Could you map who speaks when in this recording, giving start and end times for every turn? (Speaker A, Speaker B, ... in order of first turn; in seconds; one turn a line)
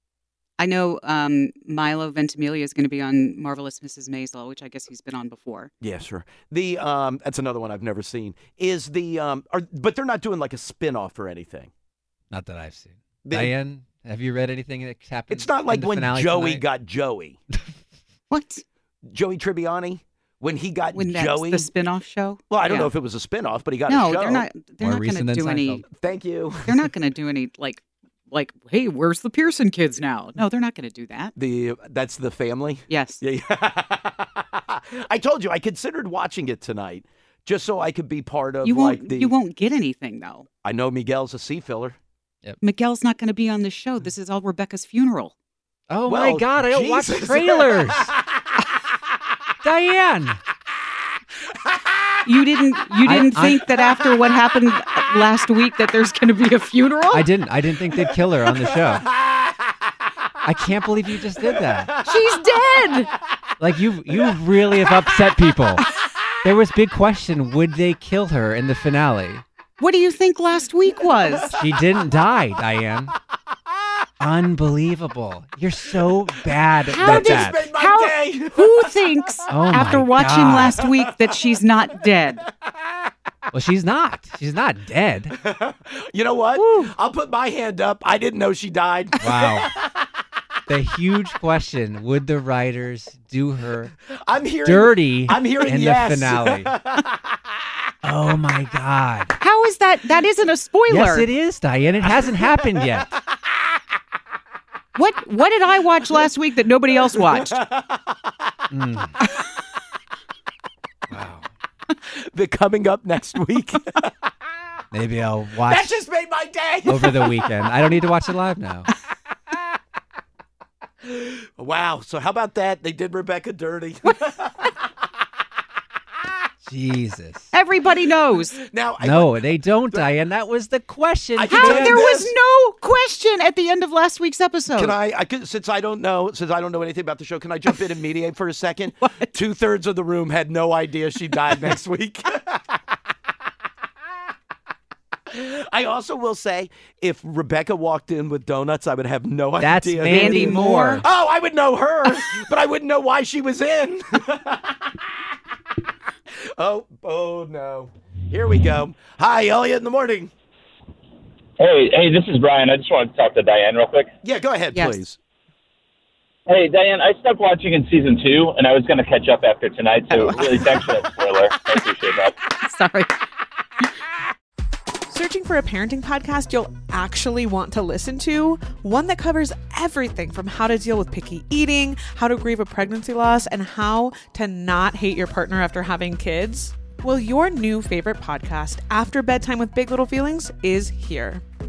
Speaker A: 0.6-5.7
Speaker B: 5.8-11.7
Speaker C: 12.3-16.7
Speaker B: 13.2-13.5
Speaker B: 15.3-17.4
Speaker A: 18.3-18.6
Speaker B: 19.1-21.7
Speaker A: 20.9-22.9
Speaker B: 22.5-24.5
Speaker A: 23.9-25.8
Speaker C: 24.8-25.8
Speaker B: 25.9-26.8
Speaker A: 26.6-31.3
Speaker B: 31.4-39.3
Speaker A: 32.9-33.2
Speaker A: 38.6-40.5
Speaker B: 40.6-42.0
Speaker A: 42.6-45.3
Speaker C: 45.9-48.1
Speaker B: 46.0-48.1
Speaker C: 49.6-50.4
Speaker A: 52.2-57.2
Speaker C: 53.0-53.7
Speaker C: 57.1-59.1
Speaker B: 58.0-59.5
Speaker C: 60.4-62.0
Speaker B: 61.4-62.4
Speaker A: 62.0-63.1
Speaker C: 63.6-65.8
Speaker C: 66.4-69.4
Speaker A: 69.8-71.5
Speaker C: 71.5-73.1
Speaker C: 74.2-77.7
Speaker A: 76.9-82.4
Speaker B: 76.9-79.5
Speaker C: 79.5-80.7
Speaker B: 80.5-81.2
Speaker C: 83.5-85.3
Speaker B: 85.4-90.0
Speaker A: 86.5-86.9
Speaker C: 89.2-89.7
Speaker C: 90.7-93.9
Speaker B: 94.0-97.4
Speaker C: 94.6-96.7
Speaker C: 98.0-99.4
Speaker A: 99.4-101.3
Speaker C: 100.9-103.1
Speaker A: 104.9-107.6
Speaker B: 107.5-108.3
Speaker C: 108.7-109.2
Speaker C: 111.1-111.5
Speaker B: 112.0-114.1
Speaker C: 114.9-116.0
Speaker B: 115.6-117.5
Speaker C: 116.8-118.9
Speaker B: 121.0-124.8
Speaker C: 126.6-127.5
Speaker A: 127.5-128.6
Speaker B: 128.5-130.1
Speaker C: 129.0-132.1
Speaker B: 131.3-132.3
Speaker A: 131.5-134.9
Speaker B: 134.8-142.8
Speaker B: 145.3-155.1
Speaker C: 149.6-151.0
Speaker A: 150.1-151.0
Speaker B: 156.3-160.3
Speaker D: 161.6-164.1
Speaker B: 164.2-165.2
Speaker A: 164.7-165.0
Speaker D: 166.5-172.3
Speaker A: 170.1-173.2
Speaker E: 175.1-191.4